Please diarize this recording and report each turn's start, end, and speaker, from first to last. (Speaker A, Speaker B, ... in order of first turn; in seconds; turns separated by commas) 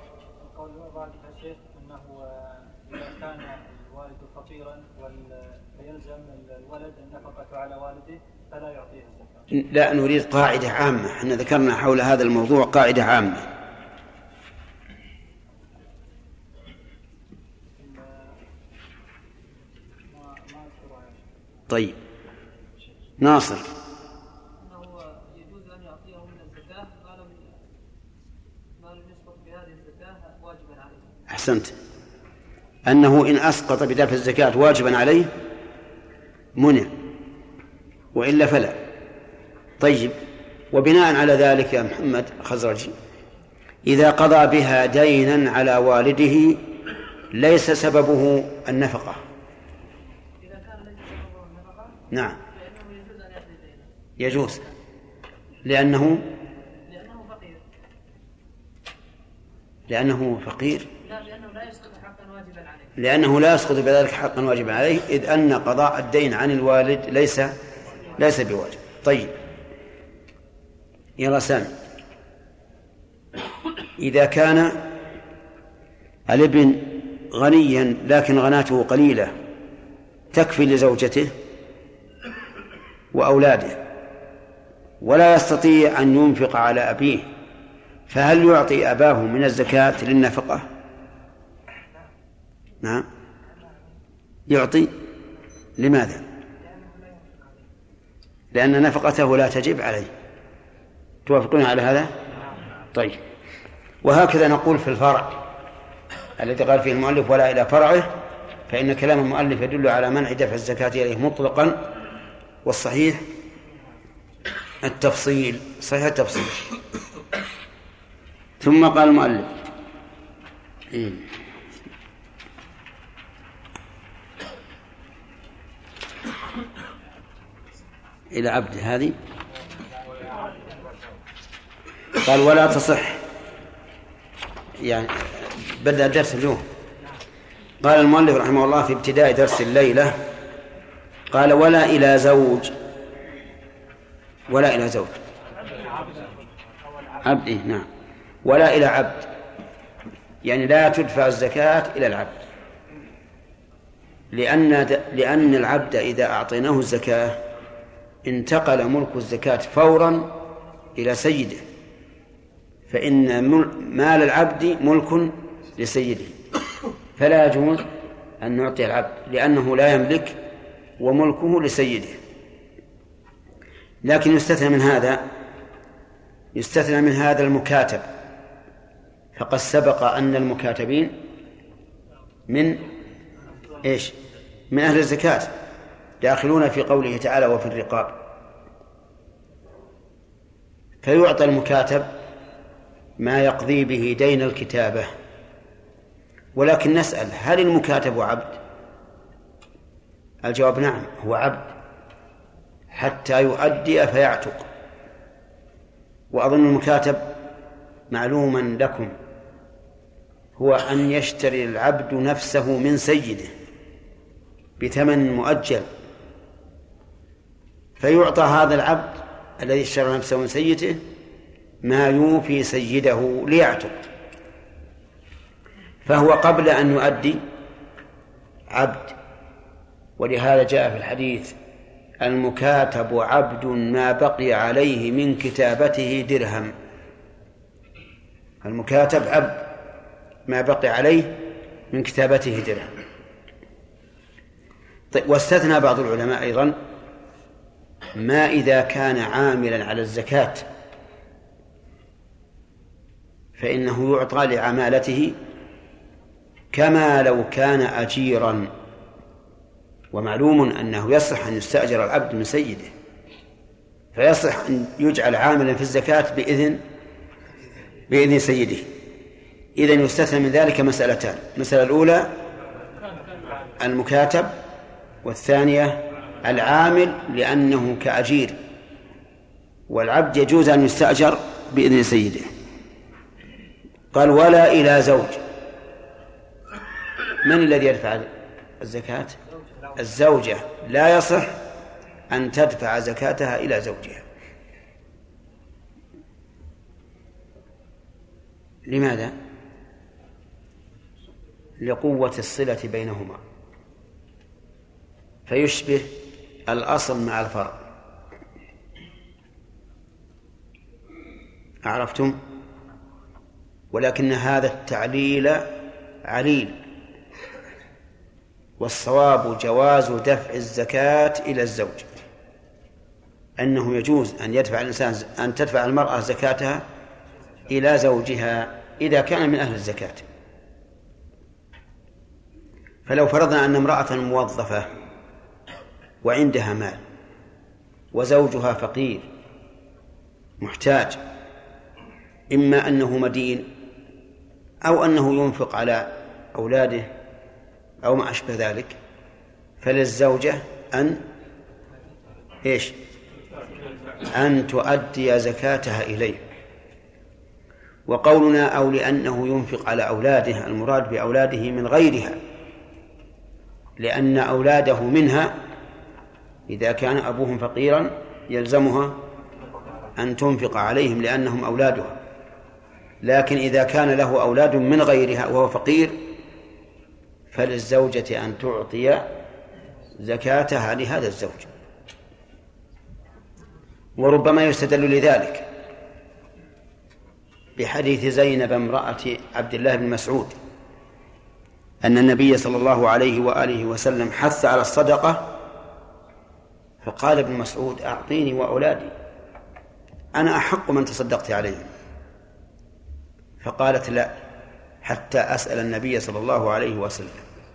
Speaker A: 0.5-2.2, Speaker A: 2.9-9.4, Speaker B: 9.5-13.5, Speaker A: 20.1-21.2, Speaker B: 21.7-21.9, Speaker B: 23.2-23.7, Speaker C: 24.6-27.6, Speaker C: 28.8-31.1, Speaker B: 31.3-31.7, Speaker B: 32.9-35.3, Speaker B: 36.5-36.9, Speaker B: 38.1-38.8, Speaker B: 39.8-40.2, Speaker B: 40.7-43.0, Speaker B: 43.8-46.6, Speaker B: 47.3-49.2, Speaker C: 50.4-53.9, Speaker B: 52.1-52.4, Speaker B: 54.2-54.6, Speaker B: 55.6-56.2, Speaker C: 56.9-57.6, Speaker B: 59.9-60.9, Speaker C: 61.0-62.9, Speaker B: 63.0-67.5, Speaker B: 68.1-69.3, Speaker B: 71.2-71.7, Speaker B: 74.0-74.8, Speaker B: 76.3-79.3, Speaker B: 80.3-81.3, Speaker B: 83.1-83.8, Speaker B: 85.0-87.3, Speaker B: 88.1-90.7, Speaker B: 92.8-93.1, Speaker B: 94.5-94.9, Speaker B: 95.8-96.2, Speaker C: 96.7-97.4, Speaker B: 98.5-100.1, Speaker B: 101.2-102.2, Speaker B: 102.9-103.2, Speaker B: 104.0-105.4, Speaker B: 106.4-108.2, Speaker B: 108.7-111.8, Speaker B: 112.6-113.2, Speaker B: 114.8-116.7, Speaker B: 118.6-119.5, Speaker B: 120.9-121.3, Speaker B: 128.3-129.2, Speaker A: 130.1-130.7, Speaker B: 132.2-133.2, Speaker B: 134.8-136.6, Speaker B: 137.8-140.2, Speaker B: 141.3-142.7, Speaker B: 144.5-145.1, Speaker A: 145.7-146.4, Speaker A: 146.9-147.2, Speaker B: 147.2-147.9, Speaker B: 148.4-149.3, Speaker B: 150.4-152.4, Speaker B: 154.3-157.4, Speaker B: 158.2-160.3, Speaker B: 160.9-161.6, Speaker B: 162.9-166.4, Speaker B: 167.2-167.9, Speaker B: 168.4-170.4, Speaker B: 171.0-172.2, Speaker B: 174.0-175.3, Speaker B: 176.5-178.1, Speaker B: 179.3-181.2, Speaker B: 182.5-182.8, Speaker B: 183.8-184.2, Speaker B: 184.7-185.5, Speaker B: 186.2-188.2, Speaker B: 191.0-192.1, Speaker B: 193.2-195.1, Speaker B: 196.5-198.6, Speaker B: 200.4-201.7, Speaker B: 202.9-204.7, Speaker B: 206.3-207.3, Speaker B: 208.1-209.1, Speaker B: 210.6-213.5, Speaker B: 214.8-215.9, Speaker B: 218.0-221.0, Speaker B: 221.8-224.0, Speaker B: 226.0-227.4, Speaker B: 228.7-229.1, Speaker B: 230.2-231.5, Speaker B: 232.2-236.7, Speaker B: 238.6-239.7, Speaker B: 240.5-242.9, Speaker B: 245.1-246.8, Speaker B: 248.1-250.7, Speaker B: 253.6-255.4, Speaker B: 256.7-258.7, Speaker B: 260.1-262.9, Speaker B: 264.1-266.8, Speaker B: 268.1-268.9, Speaker B: 269.8-272.4, Speaker B: 273.8-274.5, Speaker B: 275.2-278.6, Speaker B: 279.9-282.5, Speaker B: 284.1-285.4, Speaker B: 287.4-289.4, Speaker B: 289.9-291.6, Speaker B: 292.3-294.2, Speaker B: 298.9-299.4, Speaker B: 301.8-303.4, Speaker B: 305.5-306.1, Speaker B: 306.7-307.8, Speaker B: 311.8-312.4, Speaker B: 313.9-315.7, Speaker B: 316.2-316.8, Speaker B: 318.8-322.1, Speaker B: 323.6-326.9, Speaker B: 327.7-330.2, Speaker B: 333.1-334.9, Speaker B: 336.2-337.0, Speaker B: 338.1-339.3, Speaker B: 340.6-341.2, Speaker B: 342.5-343.7, Speaker B: 344.8-347.1, Speaker B: 348.0-349.0, Speaker B: 349.8-351.2, Speaker B: 352.6-352.9, Speaker B: 354.3-356.4, Speaker B: 358.1-362.4, Speaker B: 364.0-365.6, Speaker B: 366.7-369.2, Speaker B: 370.1-372.2, Speaker B: 373.2-376.2, Speaker B: 377.5-379.3, Speaker B: 380.2-381.7, Speaker B: 384.2-385.7, Speaker B: 387.8-390.6, Speaker B: 392.0-395.5, Speaker B: 397.0-399.1, Speaker B: 400.3-401.9, Speaker B: 403.6-404.4, Speaker B: 405.0-407.4